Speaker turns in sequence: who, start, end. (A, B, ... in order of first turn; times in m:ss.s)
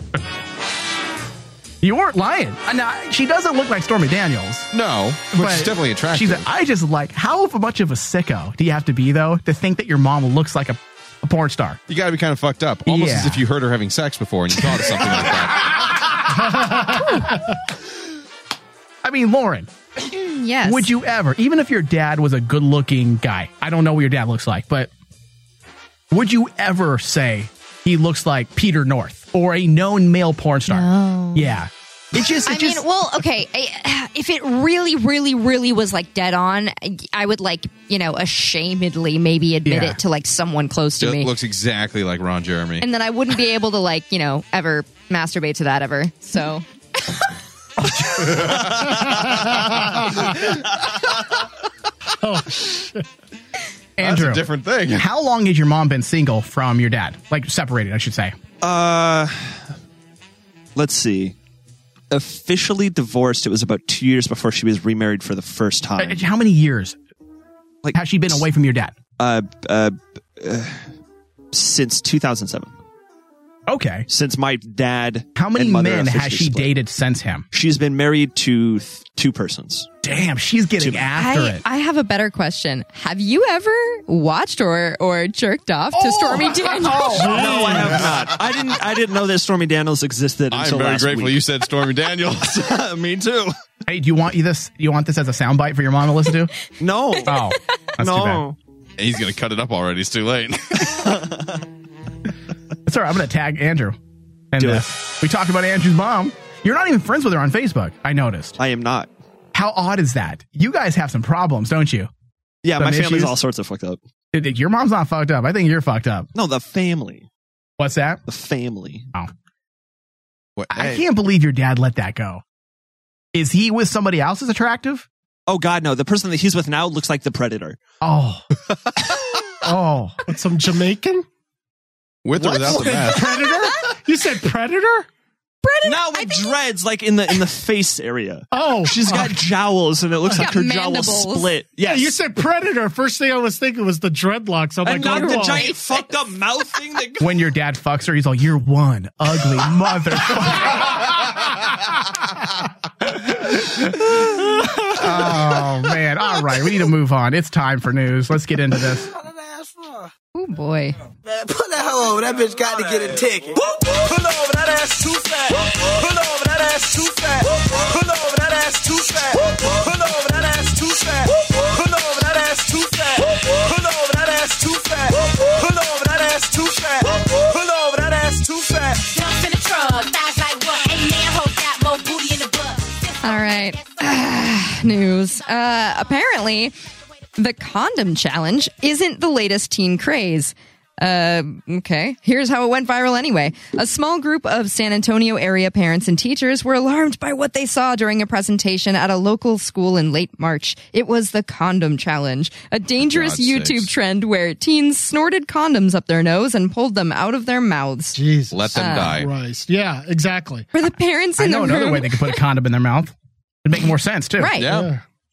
0:01.8-0:04.7 A
0:04.7-0:06.5 B
0:05.3-0:11.8 A
0:11.9-0:15.9 B
0:12.8-0:13.4 A
0:16.9-0:17.3 A
0:19.0-0:19.7 A
0:20.1-0:20.9 C
0:20.6-0:24.9 A
0:26.1-0:32.8 A
0:30.7-0:31.6 C
0:32.4-0:41.3 C
0:39.6-0:40.0 A
0:41.0-0:42.8 B
0:42.8-0:47.2 C
0:47.8-0:48.6 A
0:48.2-0:50.6 B
0:48.9-0:50.5 D
0:52.2-0:53.0 D
0:54.0-0:58.3 A
0:54.0-0:55.1 B
0:58.6-0:59.7 E
1:00.7-1:01.4 E
1:02.1-1:06.2 E
1:06.0-1:07.0 A
1:07.8-1:08.4 E
1:07.9-1:09.0 A
1:09.2-1:10.9 E
1:11.5-1:12.7 E
1:13.7-1:14.1 A
1:14.1-1:16.7 E
1:15.3-1:17.4 A
1:17.5-1:19.9 E
1:20.0-1:21.6 A
1:20.8-1:21.1 E
1:21.2-1:27.4 C
1:25.9-1:27.6 A
1:27.1-1:28.1 D
1:27.2-1:31.4 E
1:30.5-1:32.9 B
1:32.6-1:33.5 E
1:33.9-1:36.7 A
1:36.8-1:37.4 E
1:37.2-1:38.4 A
1:38.0-1:38.6 E
1:39.0-1:41.2 B
1:41.1-1:41.5 E
1:42.8-1:44.0 A
1:44.5-1:48.6 A
1:44.6-1:44.9 E
1:48.6-1:49.1 E
1:49.5-1:52.1 A
1:52.6-1:54.0 E
1:52.8-1:53.4 A
1:54.3-1:56.3 A
1:56.3-1:57.3 E
1:57.8-1:58.2 A
1:58.2-1:59.1 E
2:00.6-2:01.0 B
2:00.7-2:02.4 A
2:03.3-2:05.0 A
2:05.5-2:07.8 E
2:08.0-2:08.4 A
2:09.6-2:10.2 A
2:09.6-2:11.2 D
2:12.2-2:13.4 B
2:12.4-2:13.1 E
2:12.4-2:15.1 D
2:15.6-2:16.6 C
2:15.8-2:22.1 E
2:18.5-2:19.4 D
2:20.3-2:21.5 C
2:21.8-2:25.7 D
2:24.8-2:27.4 E
2:24.9-2:26.1 C
2:27.2-2:31.4 A
2:33.4-2:33.9 A
2:34.6-2:39.1 A
2:40.3-2:40.9 C
2:41.8-2:43.4 F
2:44.0-2:59.0 F
2:59.0-3:03.7 G
3:03.2-3:06.7 C
3:07.4-3:28.2 C
3:23.0-3:23.9 B
3:28.1-3:30.7 D
3:28.5-3:29.3 B
3:28.7-3:29.2 C
3:30.7-3:32.3 C
3:31.4-3:33.1 A
3:33.6-3:34.6 A
3:34.4-3:34.7 C
3:34.6-3:34.9 B
3:34.6-3:35.0 D